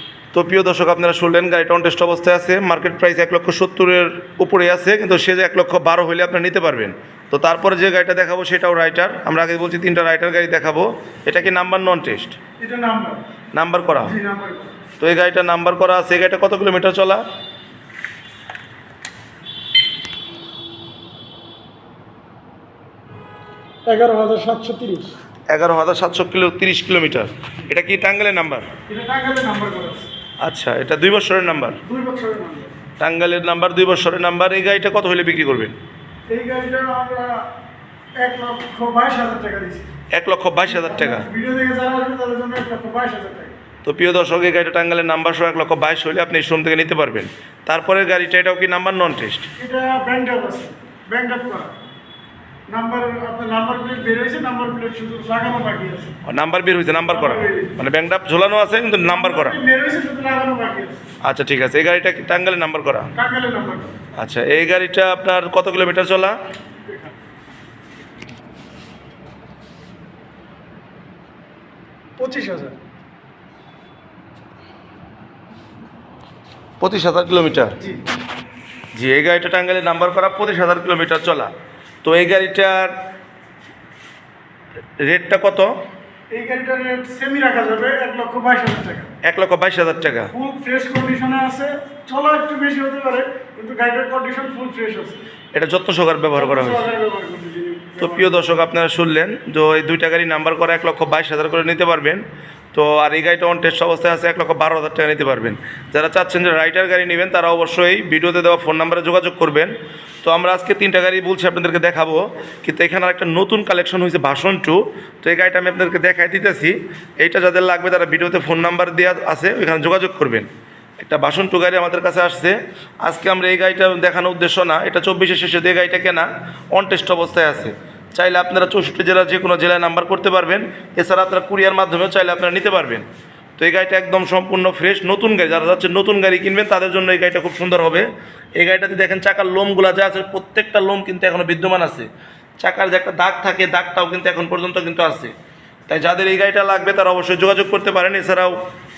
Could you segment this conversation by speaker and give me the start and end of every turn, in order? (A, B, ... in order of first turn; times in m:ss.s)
0:00.3-0:12.4 A
0:12.6-0:13.2 B
0:13.5-0:14.2 A
0:14.0-0:14.8 B
0:15.0-0:17.2 A
0:23.9-0:25.1 B
0:25.5-0:28.7 A
0:28.9-0:30.1 B
0:30.4-0:31.8 A
0:31.8-0:32.7 B
0:33.0-0:35.8 A
0:36.3-0:37.5 B
0:38.2-0:39.9 B
0:40.1-0:41.3 A
0:40.7-0:43.6 B
0:43.8-0:49.5 A
0:49.6-0:51.8 B
0:52.7-0:56.2 B
0:56.2-0:59.6 A
0:57.1-0:57.8 B
0:59.0-1:01.0 B
1:01.2-1:03.1 A
1:03.2-1:03.9 B
1:04.2-1:06.4 A
1:06.8-1:07.1 B
1:12.2-1:12.8 B
1:16.8-1:17.8 A
1:18.9-1:21.5 A
1:22.0-1:23.0 A
1:25.0-1:25.8 A
1:26.3-1:29.1 B
1:29.2-1:30.3 A
1:30.3-1:35.2 B
1:35.5-1:36.9 A
1:36.3-1:38.4 B
1:38.0-2:00.5 A
2:01.0-2:13.0 A
2:13.6-2:22.1 A
2:22.6-2:25.3 A
2:25.9-2:28.6 A